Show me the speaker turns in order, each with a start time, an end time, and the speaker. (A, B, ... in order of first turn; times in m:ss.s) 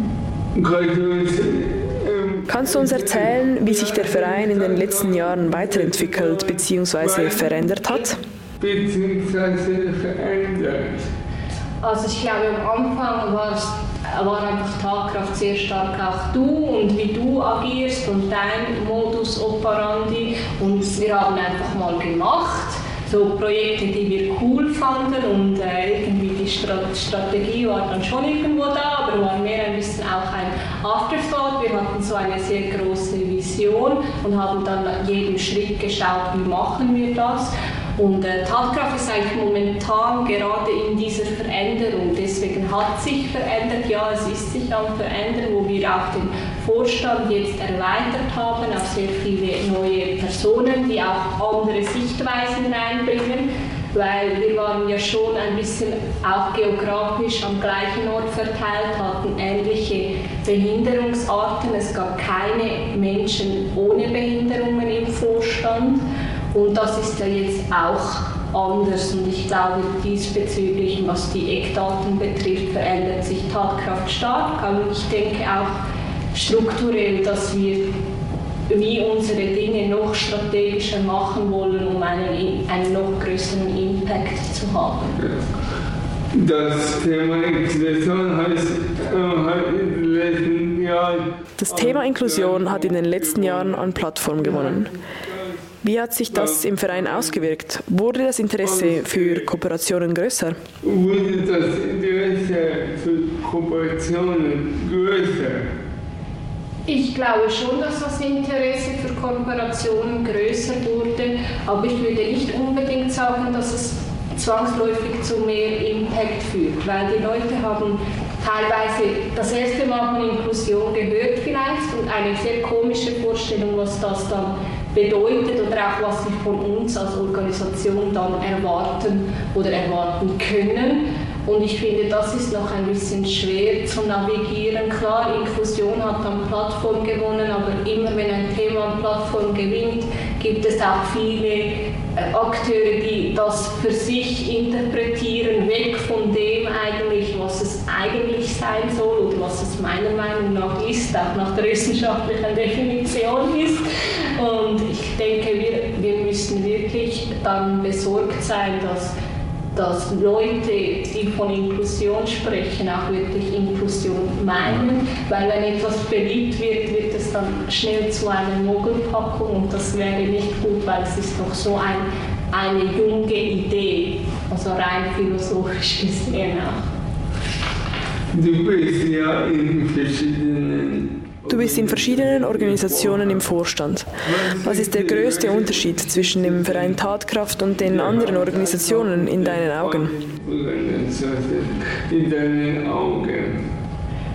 0:00.5-0:08.0 A
0:02.5-0:08.2 B
0:08.6-0:11.0 A
0:11.8-1:15.8 C
1:16.3-1:17.9 C
1:18.7-1:25.2 C
1:26.3-1:35.7 A
1:31.6-1:34.9 B
1:35.8-1:40.6 B
1:36.3-1:37.5 A
1:38.6-1:39.6 A
1:40.8-1:45.7 A
1:46.8-2:39.1 C
2:39.7-2:56.9 C
2:58.3-3:03.5 A
3:01.5-3:10.1 B
3:04.2-3:07.0 A
3:07.8-3:13.6 A